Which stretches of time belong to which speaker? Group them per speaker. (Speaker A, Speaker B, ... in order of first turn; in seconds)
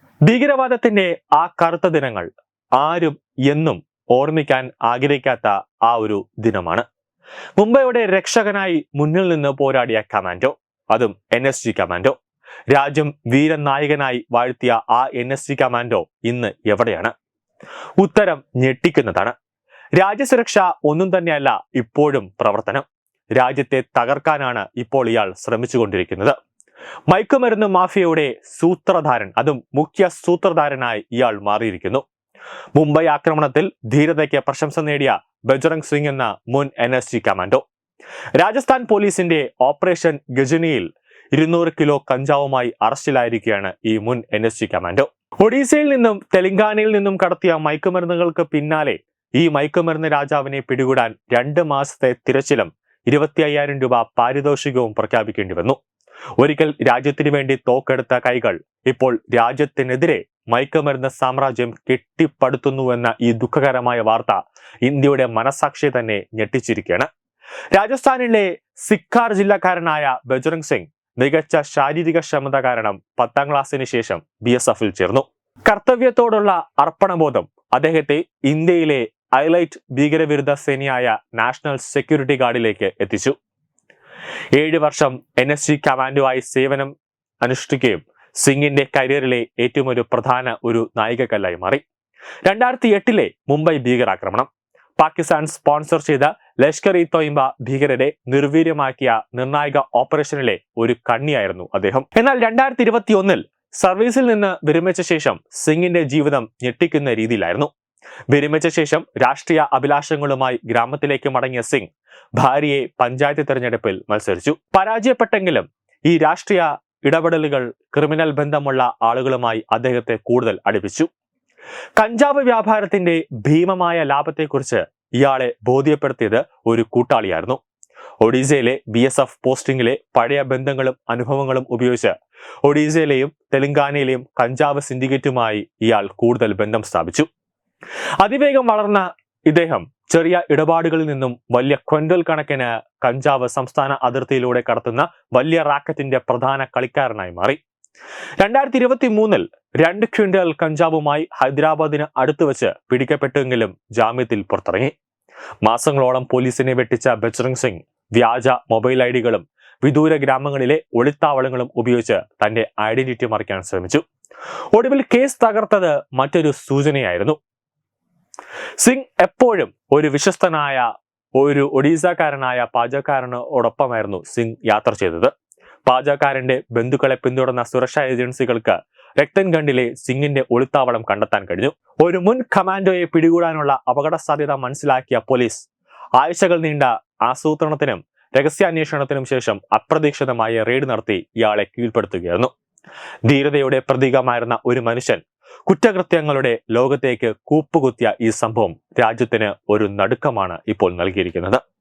Speaker A: 0.3-2.3, 2.8-6.8, 7.6-12.2, 12.7-17.1, 18.0-19.3, 20.0-22.9, 23.4-26.4, 27.1-32.0, 32.8-37.6, 38.4-55.8, 56.4-67.1, 67.7-83.4, 84.6-91.8, 92.5-107.7, 108.3-121.1, 122.0-127.6, 128.2-132.1, 132.7-137.3, 138.2-147.6, 148.4-154.9, 155.6-164.0, 164.7-167.4, 168.8-175.3, 175.9-185.7, 186.2-192.5, 193.3-201.6